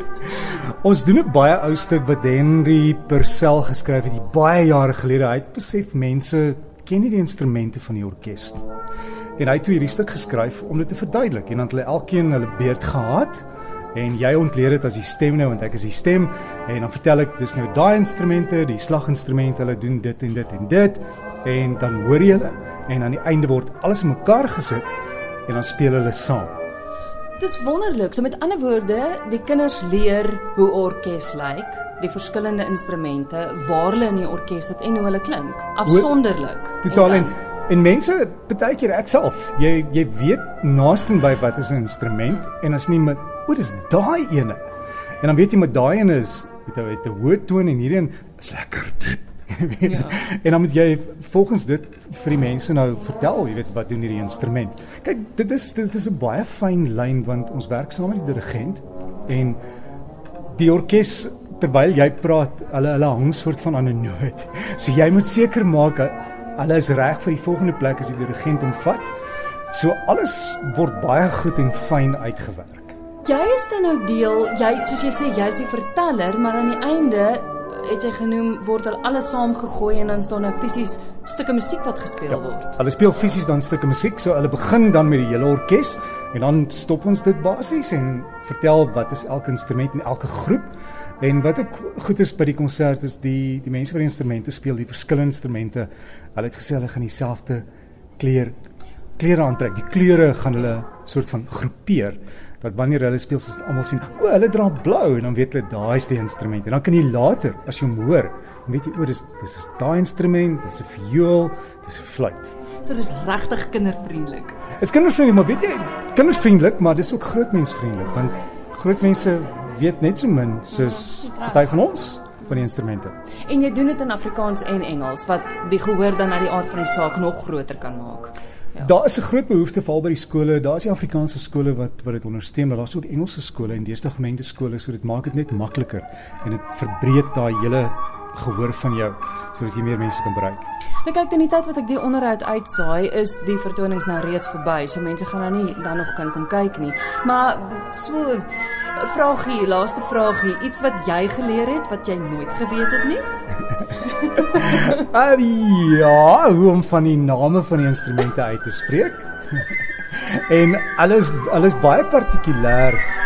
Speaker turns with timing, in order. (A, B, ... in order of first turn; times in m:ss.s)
0:00.3-0:08.6 A
0:09.4-0:24.9 A
0:25.5-0:26.6 A
0:27.4-0:37.3 B
0:35.8-0:36.1 A
0:36.8-0:44.6 A
0:45.2-0:59.6 A
0:49.9-0:50.1 B
1:00.5-1:09.0 A
1:09.7-1:12.9 A
1:13.2-1:22.8 B
1:22.8-1:37.6 A
1:38.2-1:38.5 A
1:39.2-1:52.5 A
1:52.8-1:54.6 B
1:54.8-2:03.1 A
2:00.8-2:01.7 B
2:03.5-2:08.9 B
2:08.8-2:20.7 A
2:21.0-2:33.3 B
2:34.0-2:34.8 B
2:34.5-2:43.0 A